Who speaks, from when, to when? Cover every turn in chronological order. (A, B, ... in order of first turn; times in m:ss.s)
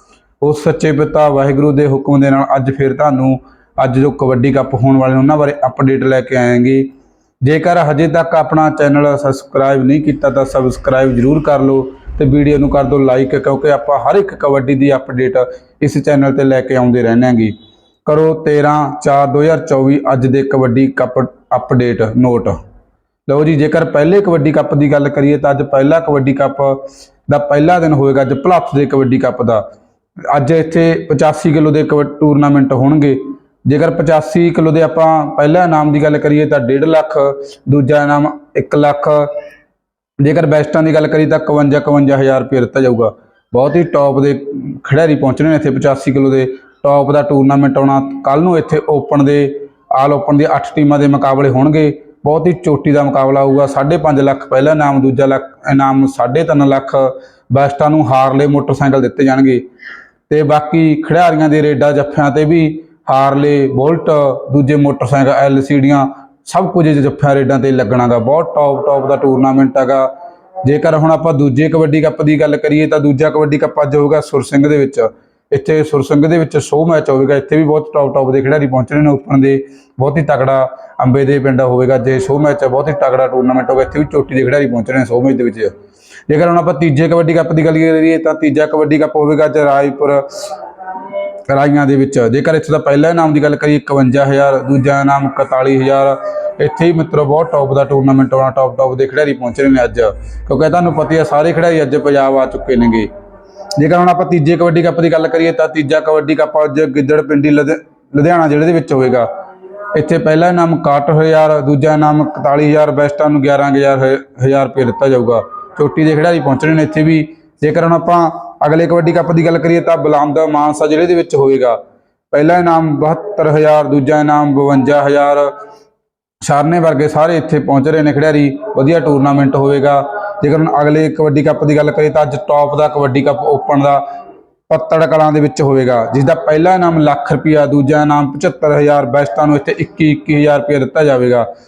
0:00.4-0:06.9 A
0:07.4-0:17.5 A
0:18.0-0:22.6 A
0:23.3-0:29.6 A
0:30.3-0:39.3 A
0:40.2-0:59.6 A
1:00.3-1:10.1 A
1:10.6-1:25.7 A
1:26.3-1:43.1 A
1:43.8-1:49.3 A
1:49.9-2:01.8 A
2:02.3-2:05.5 A
2:06.4-2:14.0 A
2:14.7-2:21.4 A